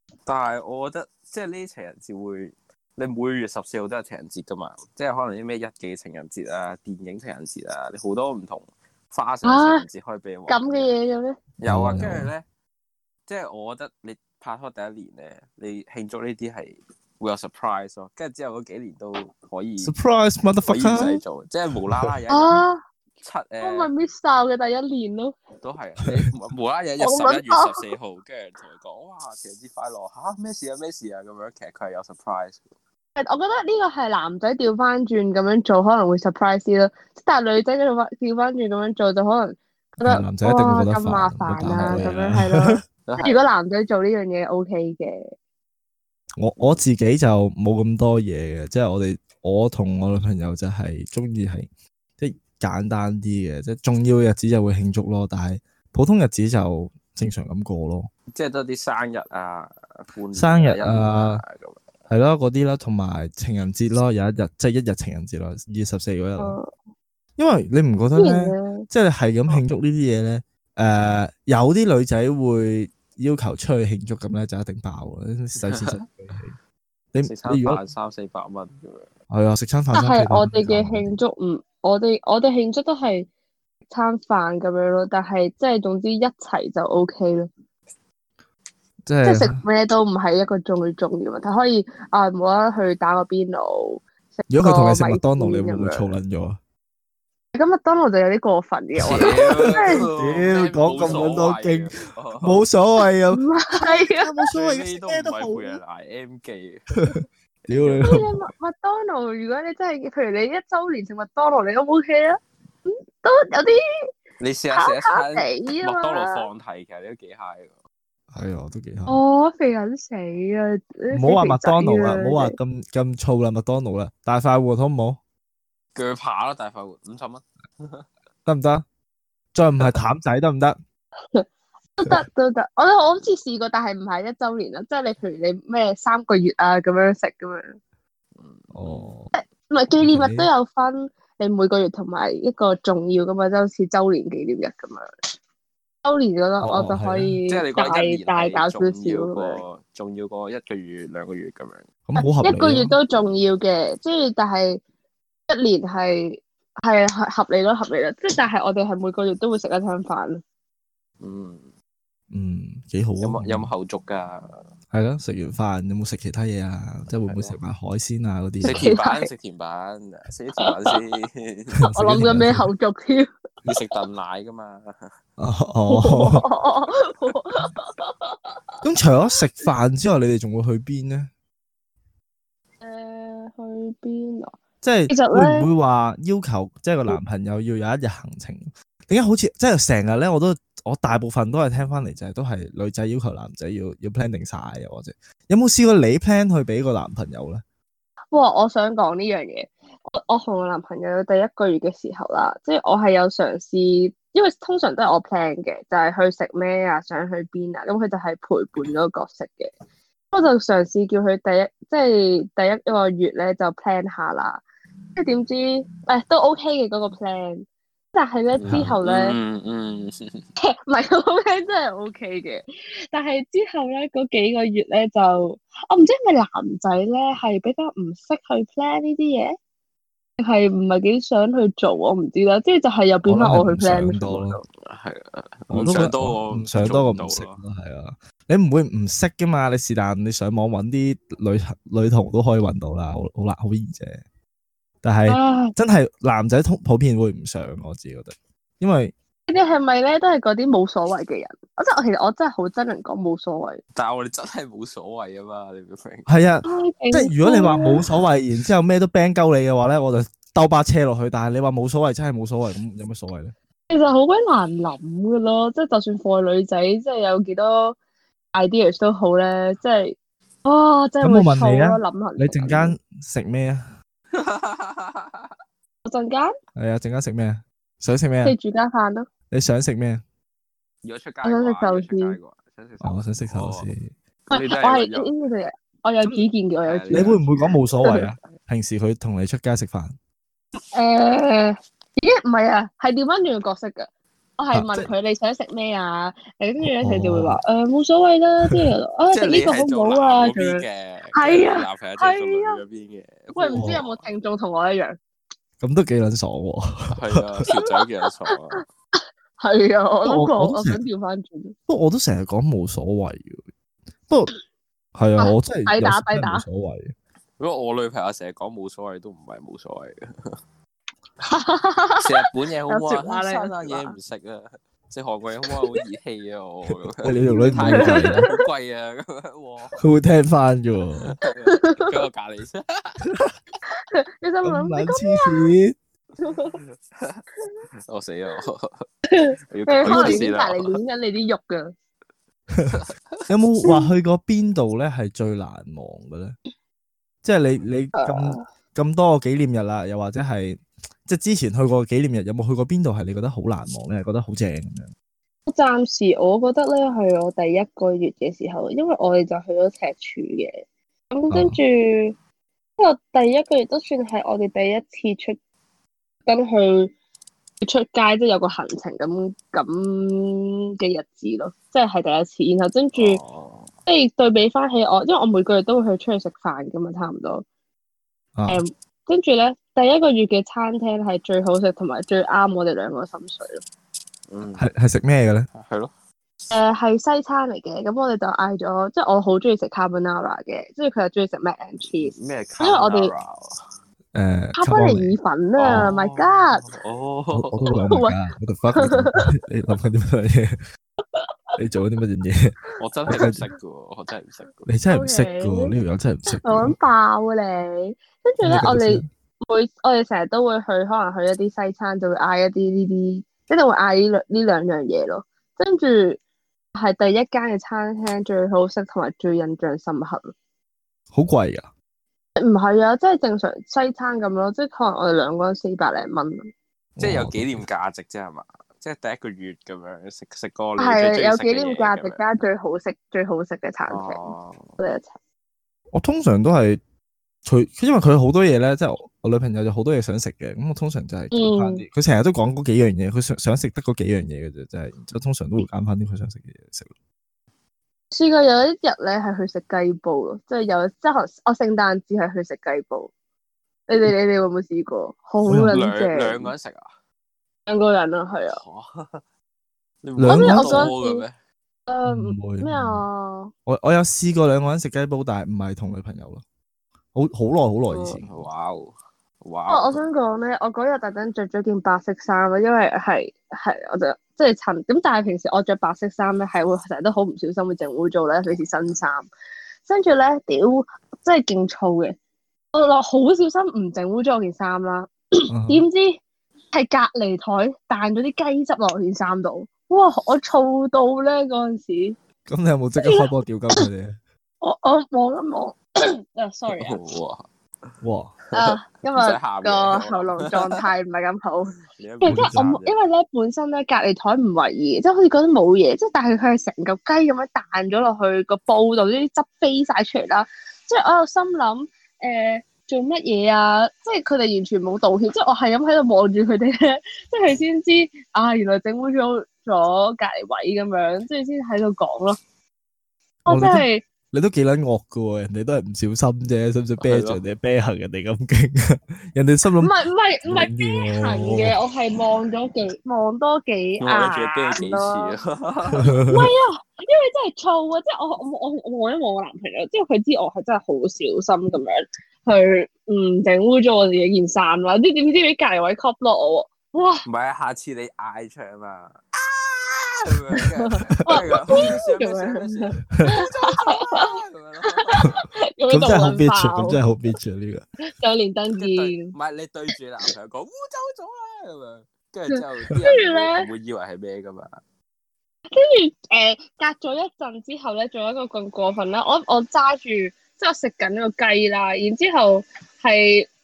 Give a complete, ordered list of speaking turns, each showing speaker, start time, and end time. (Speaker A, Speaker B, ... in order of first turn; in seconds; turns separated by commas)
Speaker A: 0.2-10.9, Speaker B: 9.4-9.8, Speaker B: 10.5-11.4, Speaker A: 11.6-12.4, Speaker C: 11.6-12.3, Speaker A: 13.2-19.9, Speaker C: 19.8-21.2, Speaker A: 20.7-22.6, Speaker B: 22.3-22.8, Speaker A: 23.2-23.9, Speaker B: 23.6-25.4, Speaker A: 25.6-32.6, Speaker B: 27.0-27.9, Speaker B: 33.1-45.3, Speaker C: 40.0-42.8, Speaker A: 43.0-43.4, Speaker C: 46.4-51.7, Speaker C: 52.2-58.1, Speaker A: 58.3-61.8, Speaker C: 60.3-61.4, Speaker C: 62.1-66.6, Speaker B: 66.4-66.7, Speaker C: 67.4-76.5, Speaker B: 68.2-68.8, Speaker A: 75.6-76.0, Speaker C: 77.1-77.8, Speaker A: 77.2-79.1, Speaker C: 79.3-81.2, Speaker B: 79.9-83.3, Speaker B: 83.9-87.5, Speaker C: 89.0-89.6, Speaker B: 89.2-96.1, Speaker C: 94.5-96.6, Speaker B: 97.5-100.1, Speaker C: 99.0-105.8, Speaker A: 99.0-102.6, Speaker B: 103.3-104.5, Speaker A: 104.5-107.0, Speaker C: 107.0-108.3, Speaker A: 107.6-108.2, Speaker B: 108.0-113.8, Speaker A: 114.4-117.8, Speaker B: 114.7-116.5, Speaker C: 118.3-119.2, Speaker B: 119.1-122.5, Speaker C: 121.1-125.2, Speaker A: 125.9-128.1, Speaker C: 128.4-128.8, Speaker C: 129.5-130.8, Speaker B: 132.0-137.8, Speaker A: 138.3-139.1, Speaker C: 138.7-139.3, Speaker B: 139.3-145.1, Speaker C: 140.0-140.5, Speaker B: 146.0-149.6, Speaker C: 146.6-147.3, Speaker A: 147.5-151.9, Speaker C: 152.1-152.9, Speaker B: 152.2-154.8, Speaker B: 155.5-160.4, Speaker A: 161.2-161.7, Speaker C: 162.3-163.7, Speaker A: 163.2-164.6, Speaker C: 164.9-168.9, Speaker A: 167.3-167.6, Speaker B: 168.6-169.3, Speaker A: 168.6-171.8, Speaker B: 170.6-171.0, Speaker C: 171.8-172.7, Speaker B: 171.9-173.3, Speaker A: 173.6-175.1, Speaker C: 175.4-176.4, Speaker B: 175.9-178.4, Speaker C: 178.8-181.3, Speaker B: 182.8-184.6, Speaker C: 184.8-197.6, Speaker B: 185.1-185.7, Speaker B: 198.3-209.7, Speaker B: 210.3-214.6, Speaker B: 215.2-219.4, Speaker A: 218.6-220.4, Speaker C: 218.7-219.0, Speaker B: 220.8-229.5, Speaker B: 230.4-234.6, Speaker C: 233.2-234.6, Speaker A: 234.7-237.6, Speaker C: 235.7-244.2, Speaker C: 245.0-249.1, Speaker B: 245.3-245.7, Speaker B: 249.5-253.8, Speaker A: 253.9-256.3, Speaker C: 256.3-263.5, Speaker B: 256.6-258.0, Speaker B: 263.9-267.9, Speaker B: 268.5-272.9, Speaker C: 271.2-273.9, Speaker A: 274.3-275.5, Speaker B: 276.0-276.5, Speaker C: 276.8-278.5, Speaker B: 278.4-279.3, Speaker C: 279.5-280.2, Speaker A: 281.0-283.9, Speaker B: 281.4-282.4, Speaker C: 283.0-284.1, Speaker A: 284.5-285.3, Speaker B: 284.5-288.2, Speaker A: 286.8-287.4, Speaker C: 287.1-290.1, Speaker B: 290.9-300.8, Speaker C: 294.7-295.1, Speaker C: 296.8-297.6, Speaker A: 299.3-304.2, Speaker B: 301.3-302.8, Speaker B: 303.5-305.2, Speaker C: 303.7-304.0, Speaker C: 305.8-307.4, Speaker A: 307.1-308.8, Speaker B: 309.6-311.7, Speaker C: 310.2-311.0, Speaker C: 311.9-313.6, Speaker C: 315.1-317.1, Speaker B: 315.4-316.6, Speaker A: 317.6-320.6, Speaker B: 321.4-324.1, Speaker A: 322.2-330.0, Speaker B: 325.7-326.0, Speaker C: 326.9-328.5, Speaker B: 327.5-328.5, Speaker C: 330.0-331.3, Speaker A: 331.3-333.4, Speaker B: 331.6-332.1, Speaker B: 334.0-335.7, Speaker C: 334.6-335.9, Speaker B: 336.4-336.8, Speaker A: 337.1-337.4, Speaker A: 338.1-339.1, Speaker B: 339.3-341.9, Speaker A: 339.7-341.0, Speaker C: 340.0-340.5, Speaker C: 342.7-346.6, Speaker A: 342.9-343.4, Speaker B: 343.8-344.1, Speaker C: 347.4-355.1, Speaker B: 348.1-348.6, Speaker B: 355.7-362.4, Speaker C: 361.5-361.8, Speaker B: 363.0-365.6, Speaker B: 366.4-367.1, Speaker B: 367.8-373.4, Speaker A: 373.1-373.9, Speaker B: 374.1-377.6, Speaker C: 378.6-378.8, Speaker B: 378.7-383.8, Speaker A: 384.5-384.9, Speaker C: 384.8-385.7, Speaker A: 385.7-386.1, Speaker B: 386.7-393.3, Speaker A: 392.2-393.8, Speaker C: 394.3-395.3, Speaker B: 394.8-396.9, Speaker A: 395.8-397.9, Speaker C: 397.5-400.8, Speaker B: 398.0-398.3, Speaker B: 399.0-399.4, Speaker C: 401.8-402.8, Speaker A: 403.0-404.9, Speaker C: 403.3-403.6, Speaker C: 404.9-406.9, Speaker B: 405.1-405.9, Speaker B: 406.6-416.4, Speaker C: 408.6-409.3, Speaker B: 416.9-420.5, Speaker C: 421.3-421.9, Speaker B: 422.6-426.6, Speaker C: 427.2-427.8, Speaker A: 427.2-432.4, Speaker B: 431.0-435.3, Speaker A: 434.1-434.9, Speaker C: 436.1-437.0, Speaker C: 437.6-447.1, Speaker B: 441.5-442.0, Speaker B: 448.3-453.3, Speaker B: 454.1-456.7, Speaker C: 455.6-455.9, Speaker A: 455.9-457.1, Speaker B: 457.9-458.8, Speaker A: 458.7-459.4, Speaker A: 460.2-461.5, Speaker C: 460.4-461.1, Speaker B: 460.5-461.4, Speaker B: 462.1-463.7, Speaker C: 462.2-463.2, Speaker C: 463.9-466.6, Speaker C: 467.3-468.5, Speaker B: 468.1-468.4, Speaker A: 468.4-470.2, Speaker B: 469.9-479.5, Speaker B: 480.1-482.4, Speaker B: 482.9-486.4, Speaker C: 485.7-486.1, Speaker B: 486.9-492.4, Speaker C: 492.7-494.4, Speaker B: 494.8-496.0, Speaker B: 496.5-497.2, Speaker A: 496.9-497.6, Speaker C: 498.2-498.5, Speaker A: 498.7-501.0, Speaker B: 498.7-522.6, Speaker A: 502.1-503.2, Speaker C: 502.5-502.9, Speaker B: 523.6-524.2, Speaker C: 523.7-530.1, Speaker A: 527.2-527.6, Speaker B: 530.0-535.5, Speaker C: 530.6-532.0, Speaker A: 534.2-536.4, Speaker C: 536.1-536.7, Speaker B: 536.5-547.4, Speaker A: 547.4-555.6, Speaker B: 550.7-557.2, Speaker C: 551.4-552.1, Speaker C: 556.1-558.0, Speaker B: 558.2-559.5, Speaker A: 559.0-565.0, Speaker B: 562.7-563.9, Speaker B: 565.9-573.7